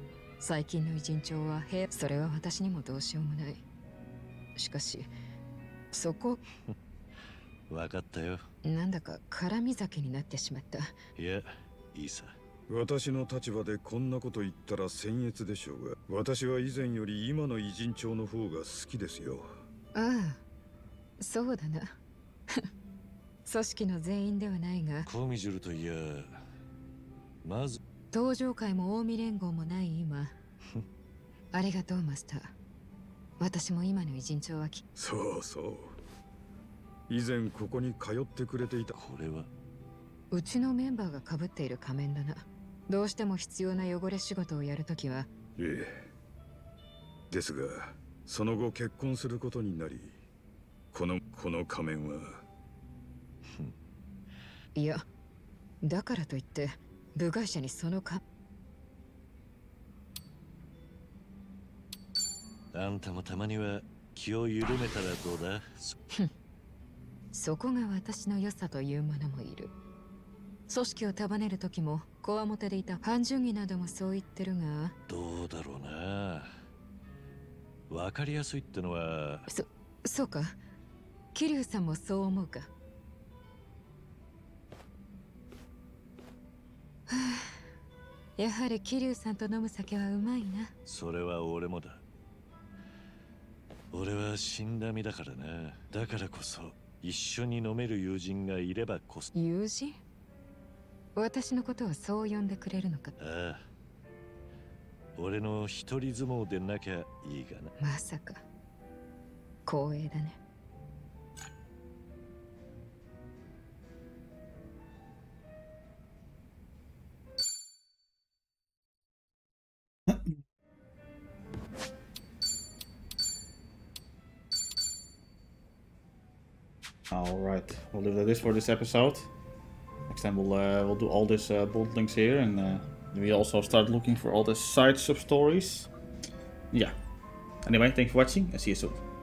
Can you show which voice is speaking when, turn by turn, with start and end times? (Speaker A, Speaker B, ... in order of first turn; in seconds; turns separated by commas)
Speaker A: 0.4-3.6, Speaker A: 4.5-5.1, Speaker A: 5.9-6.4, Speaker B: 7.7-8.5, Speaker A: 8.6-11.0, Speaker B: 11.1-12.4, Speaker C: 12.7-19.6, Speaker A: 19.9-20.4, Speaker A: 21.2-21.9, Speaker A: 23.4-25.1, Speaker B: 25.1-26.4, Speaker B: 27.4-27.8, Speaker A: 28.1-30.3, Speaker A: 31.5-32.5, Speaker A: 33.4-34.8, Speaker C: 35.0-36.0, Speaker C: 37.1-39.0, Speaker B: 38.9-39.5, Speaker A: 40.3-45.3, Speaker C: 45.5-46.1, Speaker C: 47.3-50.2, Speaker C: 50.9-52.4, Speaker B: 53.5-53.7, Speaker A: 54.7-55.0, Speaker A: 55.8-58.2, Speaker B: 62.7-66.0, Speaker A: 67.3-69.7, Speaker A: 70.7-75.0, Speaker B: 75.1-76.6, Speaker B: 77.9-79.5, Speaker A: 79.5-80.6, Speaker A: 81.3-82.7, Speaker A: 87.1-87.6, Speaker A: 88.4-90.7, Speaker B: 90.9-92.0, Speaker B: 93.9-99.3, Speaker A: 99.3-100.0, Speaker A: 101.2-103.1, Speaker B: 103.2-103.7, Speaker B: 105.2-107.7, Speaker A: 107.8-108.4, Speaker A: 109.6-110.4, Speaker D: 120.1-120.4, Speaker D: 127.1-129.3, Speaker D: 130.1-135.9, Speaker D: 137.7-139.0